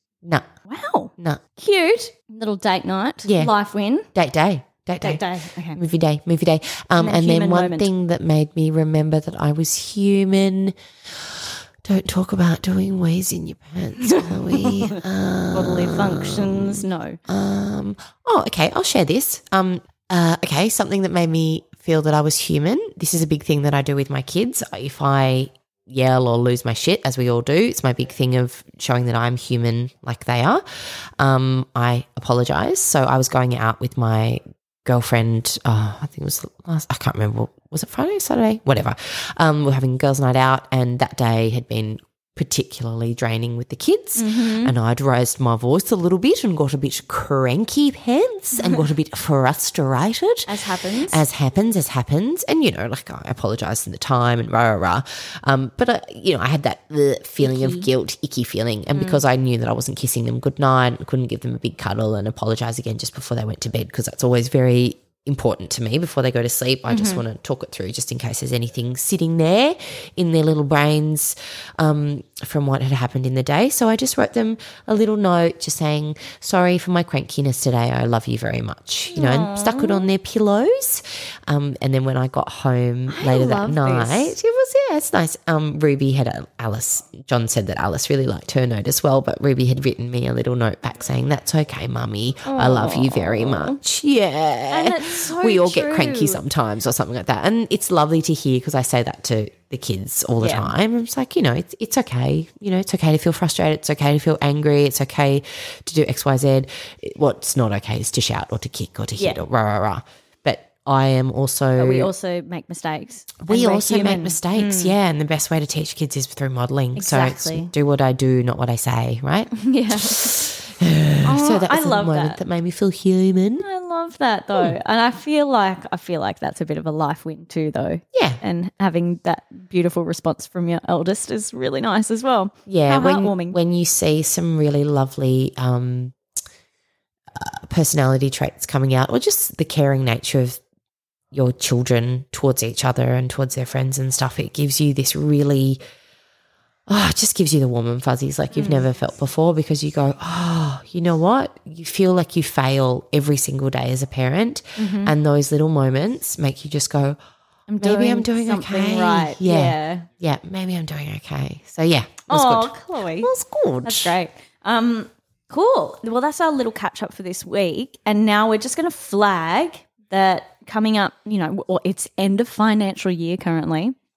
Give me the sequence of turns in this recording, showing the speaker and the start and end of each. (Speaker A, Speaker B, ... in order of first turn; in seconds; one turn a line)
Speaker A: 0.7-4.1
Speaker B: 3.2-3.5
Speaker B: 4.1-112.1
Speaker A: 5.0-5.8
Speaker A: 7.0-7.9
Speaker A: 14.0-17.2
Speaker A: 44.1-44.7
Speaker A: 50.5-51.2
Speaker A: 57.4-57.9
Speaker A: 58.9-59.2
Speaker A: 66.9-67.2
Speaker A: 79.1-80.1
Speaker A: 83.1-84.3
Speaker A: 92.5-93.8
Speaker A: 94.7-96.4
Speaker A: 100.4-100.7
Speaker A: 111.8-114.9
Speaker B: 113.4-119.5
Speaker A: 117.0-117.7
Speaker A: 119.5-120.5
Speaker B: 120.2-123.6
Speaker A: 121.2-122.4
Speaker A: 123.6-133.6
Speaker B: 128.1-128.4
Speaker B: 132.7-136.2
Speaker B: 137.3-140.6
Speaker B: 141.3-145.8
Speaker B: 146.9-157.2
Speaker A: 148.5-148.8
Speaker A: 154.8-155.1
Speaker A: 157.7-160.1
Speaker B: 157.8-164.1
Speaker A: 162.3-163.3
Speaker A: 163.8-173.9